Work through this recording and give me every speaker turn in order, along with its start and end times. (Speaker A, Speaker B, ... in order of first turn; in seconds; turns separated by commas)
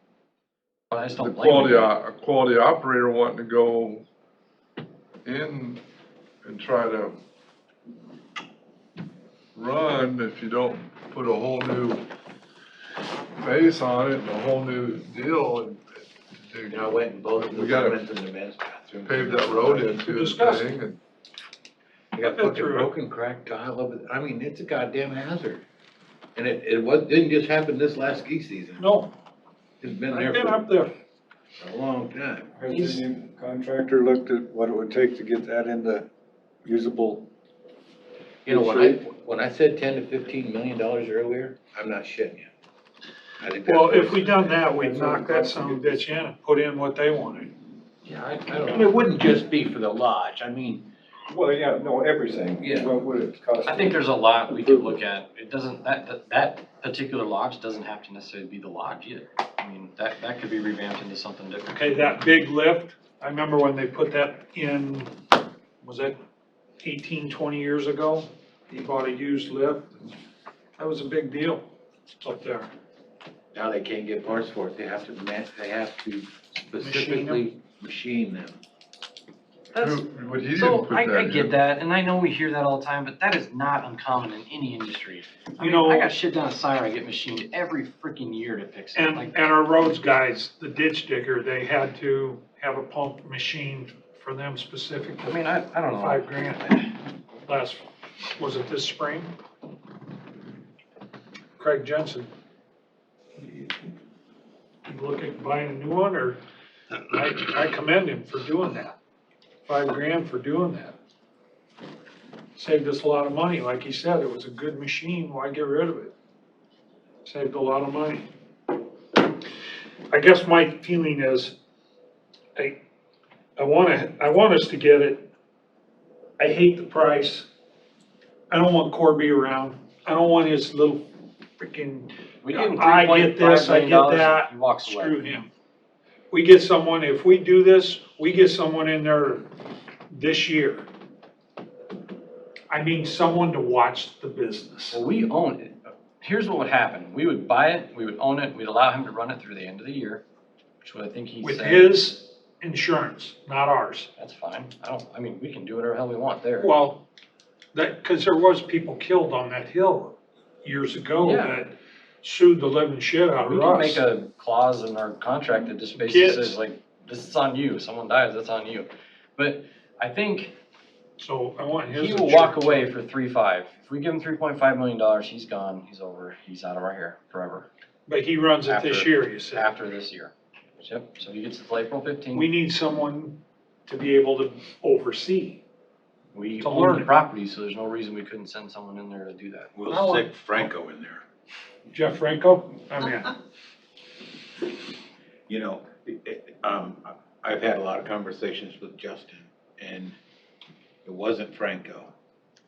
Speaker A: 0.9-1.9, Speaker B: 1.2-4.0, Speaker B: 5.2-5.8, Speaker B: 6.4-7.2, Speaker B: 9.5-12.0, Speaker B: 13.4-15.8, Speaker B: 16.4-16.8, Speaker C: 16.7-20.1, Speaker B: 17.4-18.0, Speaker B: 19.0-21.0, Speaker D: 20.0-20.7, Speaker C: 22.1-25.6, Speaker D: 22.2-22.9, Speaker C: 26.4-28.9, Speaker D: 28.8-29.1, Speaker C: 29.8-30.6, Speaker D: 30.1-30.9, Speaker C: 31.6-32.5, Speaker E: 32.5-36.1, Speaker E: 36.6-37.3, Speaker C: 38.5-42.5, Speaker E: 38.5-39.0, Speaker C: 43.4-45.2, Speaker D: 43.6-47.5, Speaker E: 44.8-46.0, Speaker C: 48.1-50.9, Speaker E: 51.3-54.9, Speaker C: 52.6-52.9, Speaker A: 53.6-62.0, Speaker D: 61.7-65.1, Speaker D: 65.8-66.2, Speaker D: 66.8-70.0, Speaker D: 70.8-71.7, Speaker D: 72.2-72.7, Speaker C: 73.5-78.6, Speaker D: 76.8-77.4, Speaker A: 79.7-89.4, Speaker B: 79.8-81.6, Speaker D: 85.6-86.1, Speaker D: 88.9-99.3, Speaker A: 95.2-96.8, Speaker D: 101.6-102.3, Speaker D: 104.8-106.4, Speaker D: 107.0-109.0, Speaker D: 109.6-111.0, Speaker D: 112.5-116.1, Speaker D: 117.2-118.3, Speaker D: 120.1-121.5, Speaker D: 123.6-125.3, Speaker D: 126.4-127.5, Speaker D: 128.5-131.1, Speaker D: 131.6-135.5, Speaker A: 132.4-135.2, Speaker D: 136.3-139.5, Speaker D: 140.1-140.9, Speaker D: 142.7-145.0, Speaker A: 144.9-150.2, Speaker A: 150.8-151.9, Speaker D: 151.4-154.1, Speaker A: 154.2-156.7, Speaker D: 156.6-157.1, Speaker D: 157.7-164.0, Speaker A: 161.2-161.5, Speaker A: 163.3-170.5, Speaker D: 165.9-166.6, Speaker D: 171.2-172.9, Speaker A: 171.9-177.7, Speaker D: 178.1-179.7, Speaker A: 178.7-182.5, Speaker D: 182.3-185.6, Speaker A: 186.3-189.7, Speaker D: 186.6-187.1, Speaker C: 189.7-191.2, Speaker D: 189.9-190.7, Speaker D: 191.9-193.4, Speaker C: 195.5-200.2, Speaker C: 201.0-202.1